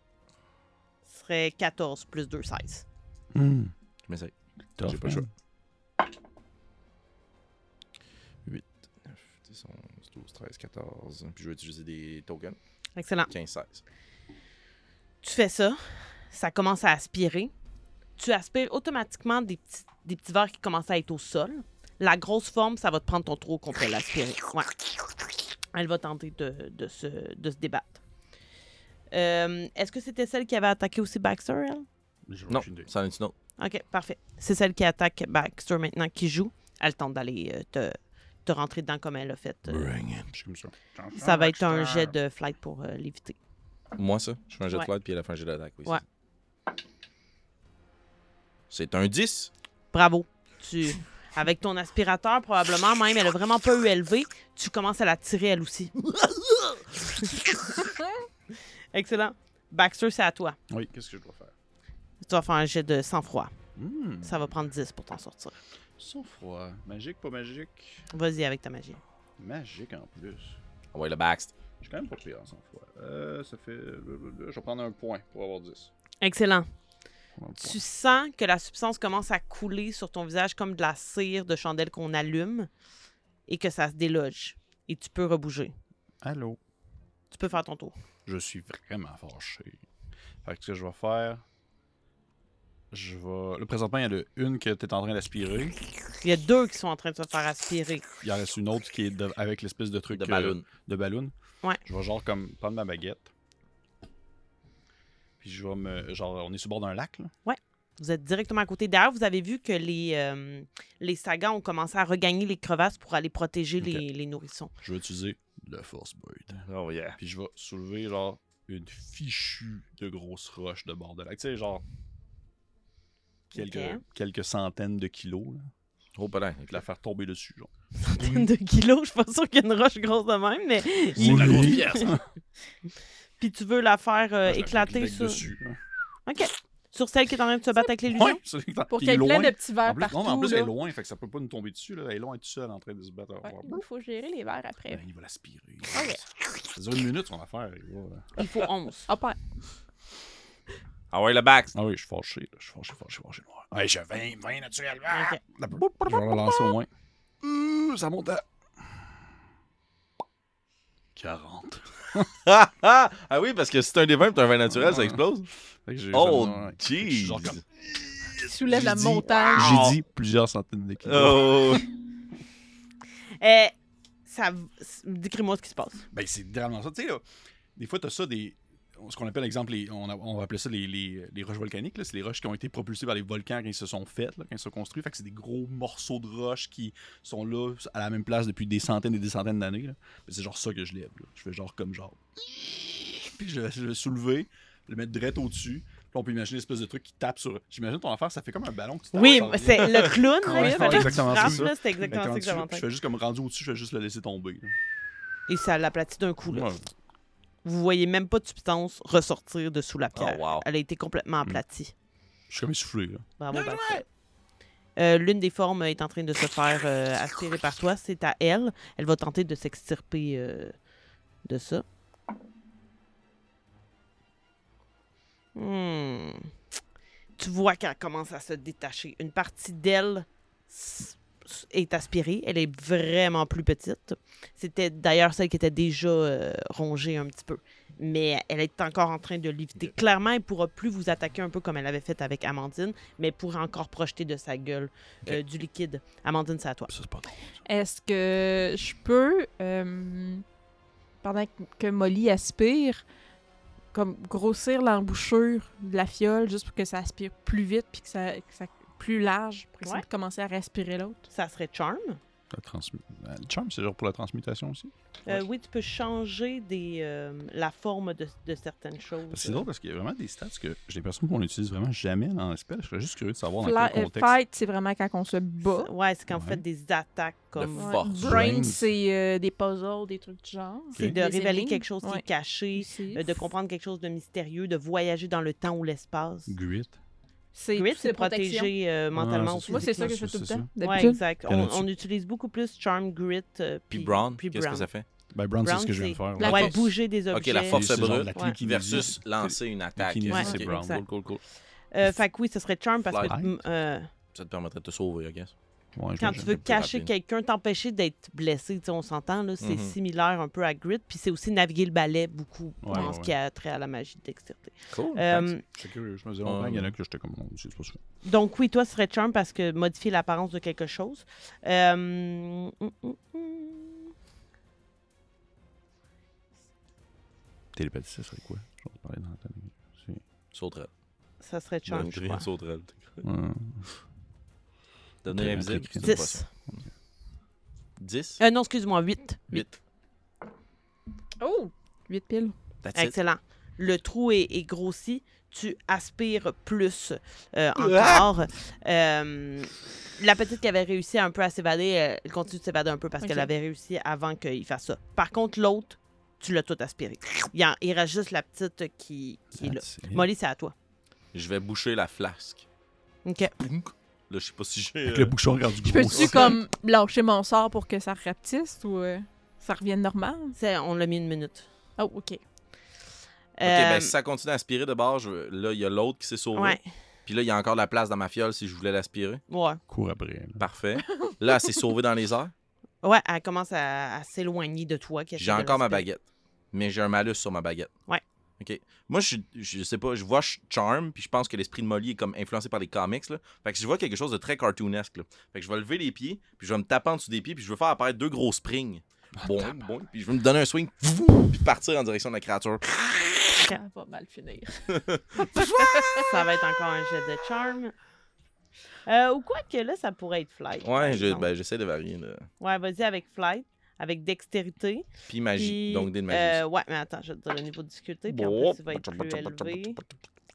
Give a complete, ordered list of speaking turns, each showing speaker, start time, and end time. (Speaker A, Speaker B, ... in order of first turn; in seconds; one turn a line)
Speaker A: 1.1-2.9
Speaker B: 3.3-3.7
Speaker C: 4.1-5.3
Speaker B: 4.8-5.3
Speaker C: 8.5-12.6
Speaker A: 13.0-13.3
Speaker C: 13.3-13.8
Speaker A: 15.2-17.5
Speaker A: 18.2-24.9
Speaker A: 25.7-28.0
Speaker A: 29.1-31.9
Speaker B: 32.3-32.9
Speaker C: 32.5-33.4
Speaker A: 33.6-39.9
Speaker C: 39.7-40.3
Speaker B: 40.3-42.2
Speaker A: 41.2-43.4
Speaker C: 44.0-46.0
Speaker C: 48.7-49.5
Speaker A: 49.9-56.0
Speaker A: 57.0-57.9
Speaker A: 58.9-60.6
Speaker B: 60.7-61.5
Speaker A: 62.2-63.5
Speaker B: 63.8-64.5
Speaker A: 64.2-65.6
Speaker B: 66.0-68.1
Speaker A: 68.1-69.0
Speaker B: 69.4-70.6
Speaker C: 70.9-71.5
Speaker B: 71.8-75.9
Speaker A: 76.2-76.7
Speaker B: 77.4-77.8
Speaker A: 77.6-82.7
Speaker A: 83.5-85.8
Speaker B: 86.2-86.6
Speaker A: 87.3-88.0
Speaker B: 88.3-89.8
Speaker B: 90.4-91.4
Speaker B: 92.9-95.8
Speaker A: 96.2-98.0
Speaker B: 98.2-101.3
Speaker C: 100.1-100.7
Speaker B: 101.8-103.3
Speaker B: 105.4-107.3
Speaker A: 107.5-114.7
Speaker B: 114.8-116.6
Speaker C: 116.6-117.2
Speaker B: 117.2-121.8
Speaker A: 123.5-124.0
Speaker B: 123.5-125.7
Speaker C: 126.2-126.8
Speaker B: 126.7-128.5
Speaker A: 128.0-132.2
Speaker B: 131.2-132.2
Speaker C: 131.2-132.2
Speaker A: 133.4-135.4
Speaker B: 134.4-135.8
Speaker A: 136.3-138.4
Speaker B: 138.1-143.8
Speaker D: 138.9-140.7
Speaker D: 143.4-145.0
Speaker B: 144.9-148.3
Speaker D: 145.9-146.2
Speaker A: 148.4-149.1
Speaker D: 149.1-149.4
Speaker C: 151.1-151.8
Speaker B: 151.7-156.9
Speaker A: 155.1-155.4
Speaker C: 156.2-156.4
Speaker B: 157.4-159.0
Speaker B: 161.2-162.3
Speaker C: 162.4-165.5
Speaker B: 164.8-165.2
Speaker B: 165.8-171.8
Speaker C: 166.1-167.6
Speaker D: 168.4-169.8
Speaker C: 169.4-170.0
Speaker C: 171.0-171.9
Speaker A: 173.4-173.7
Speaker A: 174.3-176.1
Speaker B: 176.1-177.2
Speaker B: 177.8-204.8
Speaker A: 199.1-202.8
Speaker D: 200.5-200.9
Speaker A: 205.5-206.7
Speaker B: 206.5-206.9
Speaker A: 207.6-211.9
Speaker C: 210.2-210.7
Speaker B: 212.5-213.3
Speaker A: 213.4-214.1
Speaker C: 213.5-214.0
Speaker A: 215.0-220.8
Speaker A: 221.4-221.8
Speaker A: 225.6-226.5
Speaker A: 227.4-246.9
Speaker B: 246.9-247.6
Speaker D: 247.7-250.4
Speaker D: 251.2-253.1
Speaker D: 253.9-261.3
Speaker A: 261.3-262.2
Speaker B: 262.5-265.4
Speaker A: 265.2-269.7
Speaker B: 269.3-274.4
Speaker D: 273.6-275.9
Speaker A: 275.6-277.9
Speaker B: 276.3-276.6
Speaker C: 277.6-278.4
Speaker D: 277.8-282.2
Speaker B: 278.2-278.9
Speaker A: 281.0-286.5
Speaker D: 282.8-283.4
Speaker B: 286.5-287.0
Speaker D: 287.5-288.7
Speaker A: 287.8-290.2
Speaker B: 289.1-291.9
Speaker D: 289.7-291.2
Speaker A: 290.8-294.9
Speaker C: 293.9-295.1
Speaker B: 295.3-296.7
Speaker A: 295.6-298.6
Speaker D: 296.4-296.9
Speaker C: 297.3-301.4
Speaker B: 297.7-301.1
Speaker A: 300.3-301.1
Speaker A: 301.9-304.1
Speaker C: 303.1-303.4
Speaker C: 304.3-305.5
Speaker B: 305.9-306.6
Speaker A: 306.2-315.6
Speaker C: 306.3-307.1
Speaker C: 309.6-309.9
Speaker B: 312.8-313.4
Speaker C: 314.9-315.5
Speaker B: 315.6-318.0
Speaker C: 316.4-316.9
Speaker A: 318.2-324.1
Speaker B: 327.7-330.2
Speaker C: 330.5-330.9
Speaker A: 331.4-332.5
Speaker C: 331.9-333.2
Speaker B: 333.2-333.9
Speaker C: 335.2-336.8
Speaker B: 335.3-336.5
Speaker A: 336.0-336.5
Speaker C: 338.0-338.4
Speaker A: 338.4-339.7
Speaker D: 341.4-342.6
Speaker C: 342.8-343.1
Speaker A: 342.9-360.7
Speaker C: 347.8-348.3
Speaker D: 353.2-353.5
Speaker B: 359.5-360.3
Speaker C: 361.3-362.6
Speaker A: 363.2-363.5
Speaker C: 363.6-365.3
Speaker B: 365.1-366.6
Speaker D: 365.8-370.6
Speaker C: 366.1-366.6
Speaker A: 370.6-371.7
Speaker D: 372.0-372.4
Speaker A: 373.6-374.1
Speaker C: 373.6-379.4
Speaker A: 376.6-376.8
Speaker A: 379.5-379.8
Speaker B: 379.9-380.6
Speaker C: 380.6-382.5
Speaker A: 383.0-386.1
Speaker C: 385.4-387.9
Speaker C: 388.6-402.9
Speaker B: 399.4-399.8
Speaker D: 403.5-406.5
Speaker C: 404.9-405.7
Speaker A: 406.1-407.9
Speaker A: 409.1-411.5
Speaker C: 410.8-412.5
Speaker A: 412.6-420.0
Speaker C: 415.3-416.6
Speaker C: 418.3-420.1